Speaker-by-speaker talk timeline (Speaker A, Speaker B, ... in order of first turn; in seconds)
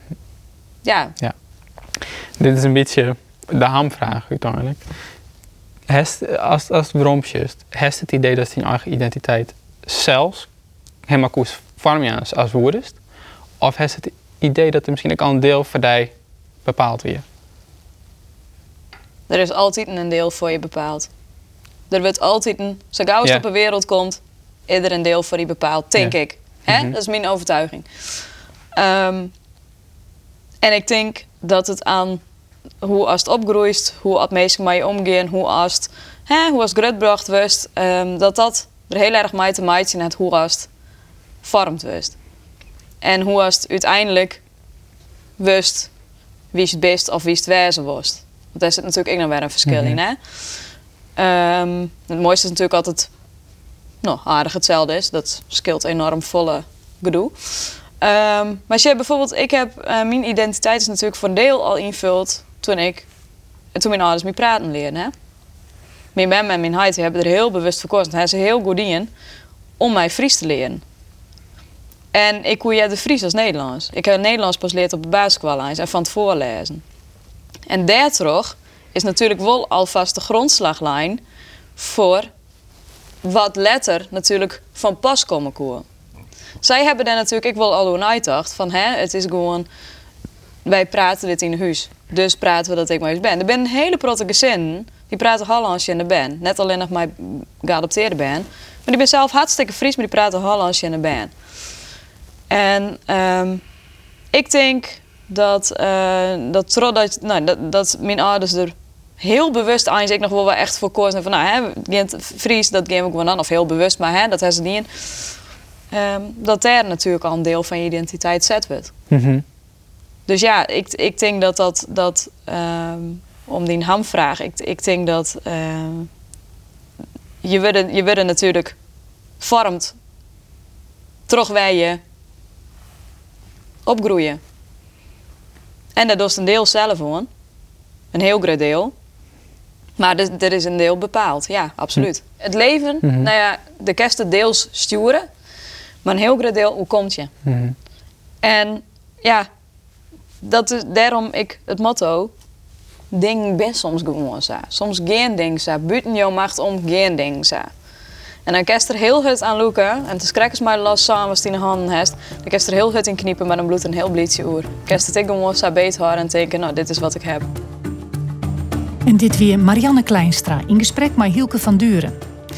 Speaker A: 0.8-1.1, 19.3-21.1, 21.9-27.9, 28.7-29.3, 30.6-32.2, 32.8-40.7, 41.4-42.1, 43.0-44.4, 45.4-45.9, 46.5-50.2, 51.1-53.1, 54.0-63.1, 63.7-65.1, 66.1-69.1, 69.8-70.8, 72.1-76.8, 77.7-81.2, 81.8-82.3, 83.2-85.8, 86.6-89.7, 90.6-101.3, 102.5-103.6, 104.3-115.3, 115.9-118.9, 120.3-126.1, 127.4-128.8, 129.4-129.9, 131.3-132.0, 133.8-134.4, 135.9-137.3, 138.1-138.9, 140.0-145.2, 146.0-147.3, 148.4-149.5, 150.4-152.3, 153.1-157.7, 158.4-167.5
Speaker B: 1.9-4.8, 5.9-10.5, 11.1-13.0, 13.6-16.1, 16.6-17.2, 26.7-26.9, 49.7-50.0, 119.1-119.4, 143.0-143.3, 147.4-147.8
Speaker C: 169.1-172.2